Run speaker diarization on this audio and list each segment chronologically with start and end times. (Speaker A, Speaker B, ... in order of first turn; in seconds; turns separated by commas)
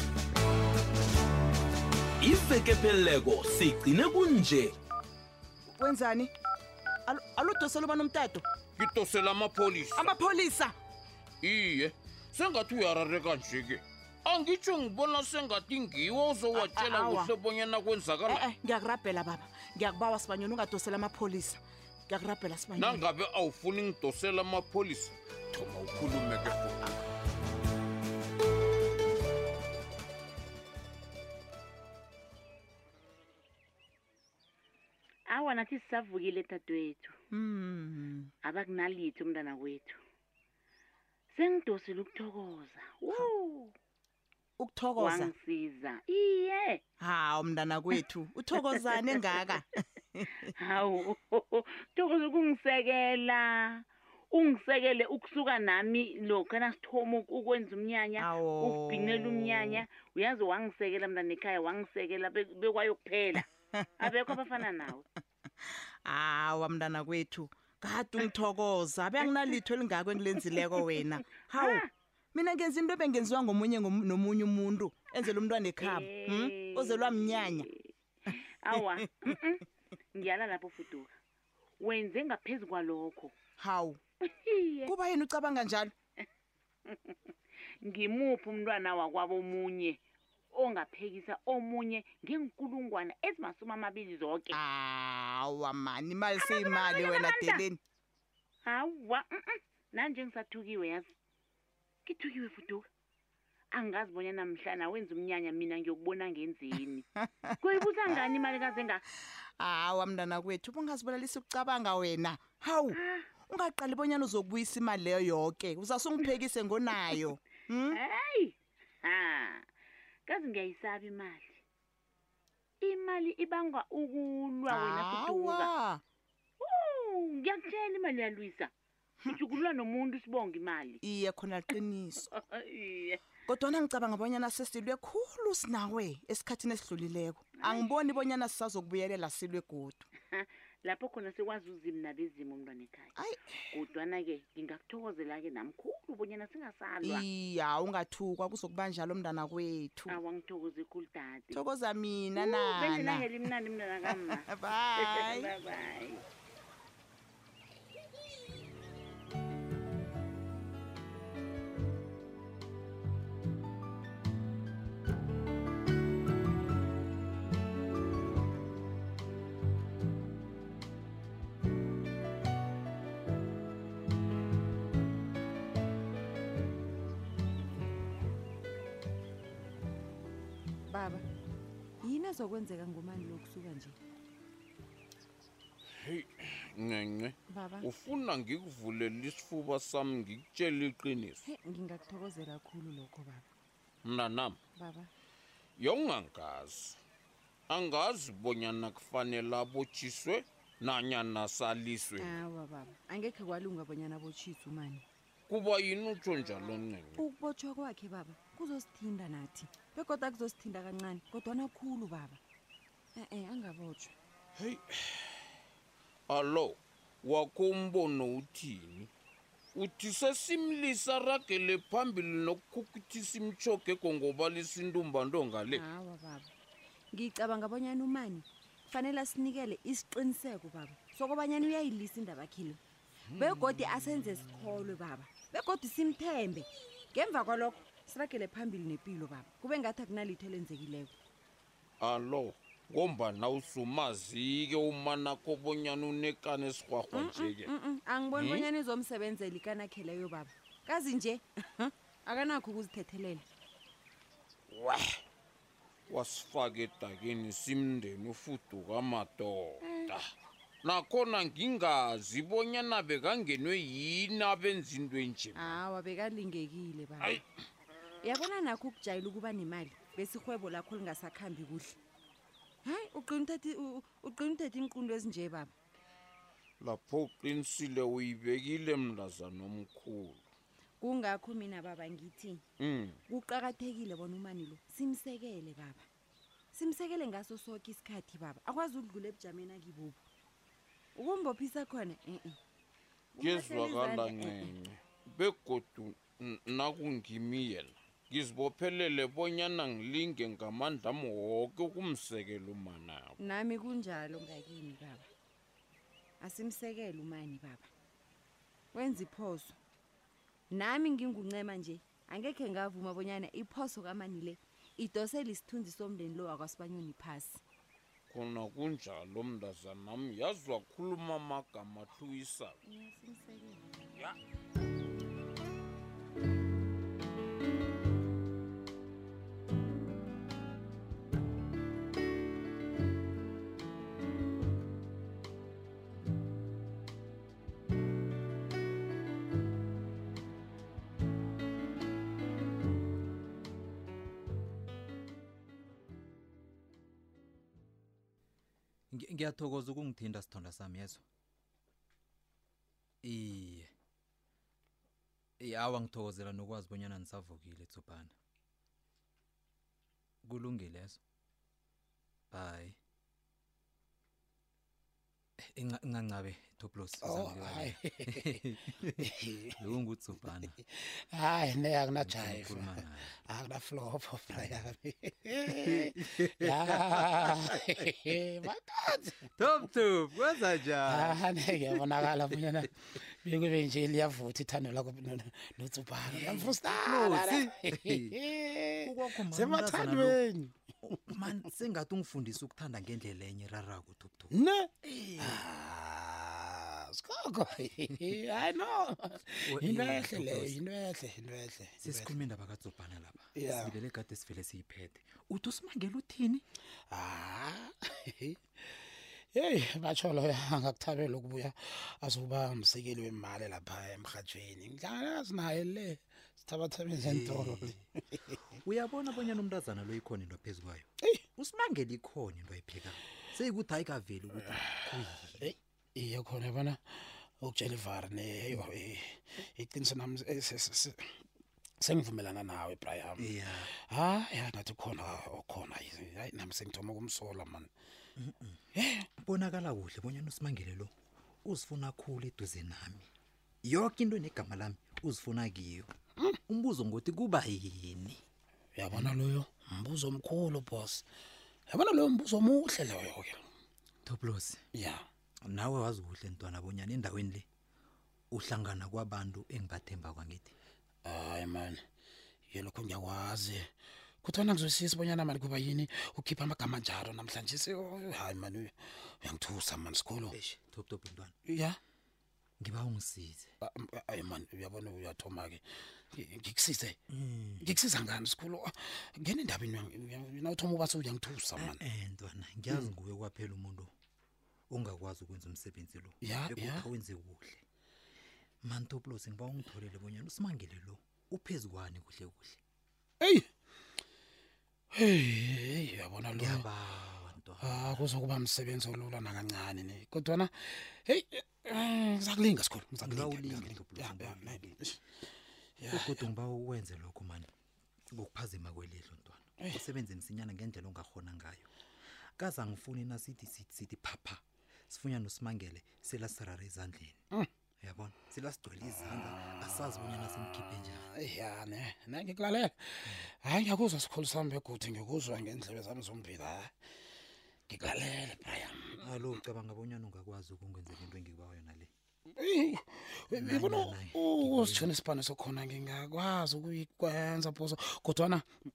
Speaker A: 2.2-4.8, Speaker B: 5.8-6.3, Speaker B: 7.1-8.4, Speaker C: 8.8-10.2, Speaker B: 10.0-10.8, Speaker C: 11.4-18.5, Speaker B: 16.5-17.3, Speaker B: 18.3-23.1, Speaker C: 22.8-27.0, Speaker D: 35.3-37.2, Speaker B: 37.3-38.3, Speaker D: 38.4-40.0, Speaker D: 41.3-43.7, Speaker B: 44.6-45.4, Speaker D: 45.0-46.8, Speaker B: 47.0-50.4, Speaker D: 50.3-63.4, Speaker B: 58.2-59.8, Speaker B: 63.3-64.6, Speaker D: 64.0-65.0, Speaker B: 66.0-71.8, Speaker D: 71.3-71.9, Speaker B: 72.3-77.7, Speaker D: 75.8-79.6, Speaker B: 78.7-79.4, Speaker D: 80.1-81.1, Speaker D: 81.8-83.3, Speaker B: 83.6-84.0, Speaker D: 84.2-84.9, Speaker B: 84.8-85.9, Speaker D: 86.9-90.0, Speaker D: 90.5-94.5, Speaker B: 94.5-97.8, Speaker D: 96.5-97.6, Speaker D: 98.7-101.1, Speaker D: 102.1-102.9, Speaker D: 103.7-107.0, Speaker B: 107.3-108.2, Speaker D: 107.6-109.0, Speaker B: 109.6-118.0, Speaker D: 112.9-113.3, Speaker D: 117.9-119.7, Speaker D: 120.3-121.6, Speaker D: 122.8-125.7, Speaker B: 124.7-126.0, Speaker D: 126.6-128.7, Speaker B: 129.2-129.5, Speaker D: 129.2-131.0, Speaker B: 131.0-132.3, Speaker D: 132.3-133.2, Speaker B: 133.5-140.1, Speaker D: 137.6-137.9, Speaker D: 140.2-143.1, Speaker B: 143.2-143.5, Speaker D: 143.7-147.2, Speaker B: 147.0-150.2, Speaker D: 150.1-151.7, Speaker B: 151.5-153.5, Speaker D: 152.4-156.2, Speaker B: 154.1-155.5, Speaker E: 180.9-181.2, Speaker E: 182.0-184.0, Speaker C: 186.0-191.4, Speaker E: 187.5-187.9, Speaker E: 191.4-193.5, Speaker C: 194.0-194.6, Speaker E: 194.8-195.1, Speaker C: 195.8-197.0, Speaker C: 197.7-202.4, Speaker E: 202.2-205.0, Speaker C: 205.5-207.2, Speaker E: 207.2-212.4, Speaker E: 213.2-214.1, Speaker C: 214.6-215.0, Speaker C: 216.3-219.1, Speaker C: 219.8-225.8, Speaker E: 225.7-226.5, Speaker E: 227.1-232.8, Speaker E: 233.3-241.1, Speaker C: 242.0-247.7, Speaker E: 247.1-253.4, Speaker C: 248.3-248.7, Speaker C: 254.7-255.1, Speaker C: 256.1-260.2, Speaker E: 259.8-260.1, Speaker C: 260.8-265.8, Speaker E: 265.6-267.4, Speaker E: 268.2-272.0, Speaker E: 272.9-275.7, Speaker C: 276.8-280.4, Speaker E: 281.0-282.6, Speaker C: 282.8-283.2, Speaker E: 283.3-286.1, Speaker E: 286.7-290.2, Speaker E: 291.2-292.6, Speaker E: 293.4-294.7, Speaker C: 293.4-303.4, Speaker E: 303.4-305.3, Speaker E: 306.4-307.9, Speaker E: 308.9-309.8, Speaker E: 310.7-317.6, Speaker C: 318.3-322.8, Speaker E: 322.8-324.1, Speaker F: 349.1-351.2, Speaker F: 353.2-353.9, Speaker F: 355.6-358.3, Speaker F: 360.4-361.2, Speaker F: 362.5-363.0, Speaker F: 365.6-369.3, Speaker G: 367.2-368.5, Speaker G: 369.2-369.8, Speaker F: 369.8-370.8, Speaker G: 370.9-379.4, Speaker F: 372.2-373.3, Speaker F: 374.5-374.8, Speaker F: 375.7-377.9, Speaker F: 379.6-382.0, Speaker G: 381.1-390.7, Speaker F: 386.3-388.3, Speaker F: 389.0-390.4, Speaker F: 391.0-394.5, Speaker G: 394.5-402.3, Speaker F: 395.1-395.6, Speaker F: 399.7-400.8, Speaker F: 402.0-406.6, Speaker G: 403.6-403.9, Speaker G: 407.1-408.6, Speaker G: 409.5-418.0, Speaker F: 417.2-418.0, Speaker F: 418.8-425.7, Speaker G: 425.6-431.4, Speaker G: 432.0-437.9, Speaker F: 433.4-433.9, Speaker F: 438.4-438.8, Speaker G: 438.9-439.3, Speaker F: 439.4-441.1, Speaker F: 441.6-443.3, Speaker F: 443.8-446.1, Speaker F: 446.7-448.4, Speaker G: 449.0-451.2, Speaker G: 451.9-453.7, Speaker F: 454.2-454.8, Speaker G: 454.9-455.2, Speaker F: 455.6-457.7, Speaker F: 458.5-460.7, Speaker G: 461.2-462.0, Speaker G: 462.7-463.9, Speaker G: 464.4-470.6, Speaker F: 470.5-471.5, Speaker G: 471.7-472.0, Speaker F: 472.8-473.7, Speaker G: 473.8-477.2, Speaker F: 477.3-478.0, Speaker G: 477.8-482.0, Speaker F: 481.8-484.1, Speaker F: 484.9-487.8, Speaker G: 486.4-487.1, Speaker F: 488.8-492.8, Speaker G: 495.1-496.9, Speaker F: 496.5-498.3, Speaker G: 497.8-505.2, Speaker F: 503.2-505.0, Speaker G: 506.0-506.5, Speaker F: 506.1-507.7, Speaker F: 508.4-511.9, Speaker F: 512.6-517.4, Speaker F: 518.0-521.3, Speaker G: 521.1-526.9, Speaker G: 527.9-529.2, Speaker F: 529.2-532.1, Speaker G: 532.5-538.7, Speaker F: 533.5-535.1